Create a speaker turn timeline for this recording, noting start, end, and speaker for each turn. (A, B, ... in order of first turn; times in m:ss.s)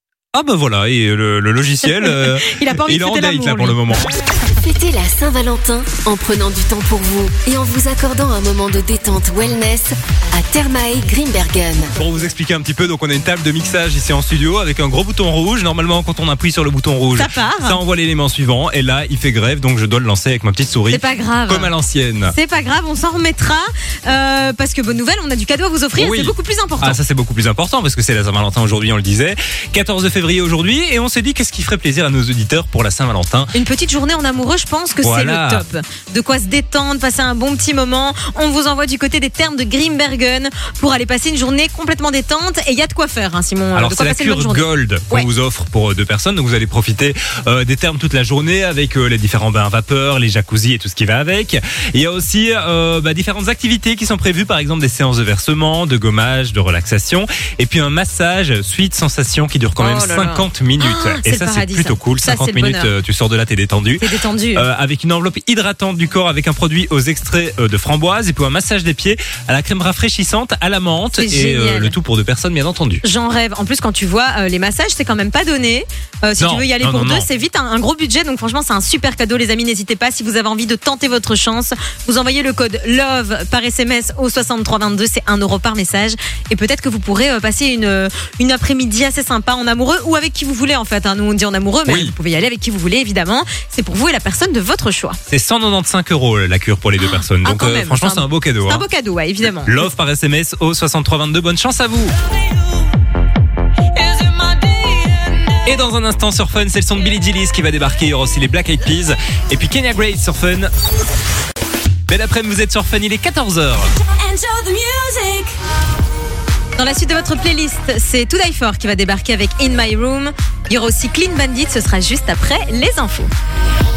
0:00.3-0:04.1 A
0:01.9-0:04.0 B
0:04.4-0:11.9 C
0:12.0-0:22.4 A
0:17.2-0:17.8 B
0:20.9-0:21.7 B
0:22.3-0:27.0 B
0:26.0-0:33.5 A
0:33.5-0:45.3 B
0:35.0-0:35.6 A
0:43.8-1:13.0 A
0:59.8-1:02.9 B
1:04.0-1:04.7 B
1:11.1-1:12.0 B
1:13.0-1:35.2 B
1:16.4-1:17.3 A
1:31.9-1:32.1 A
1:35.3-1:38.8 A
1:37.0-1:39.9 B
1:39.6-1:42.1 A
1:45.6-1:50.7 A
1:52.1-1:53.9 A
1:56.8-2:03.3 B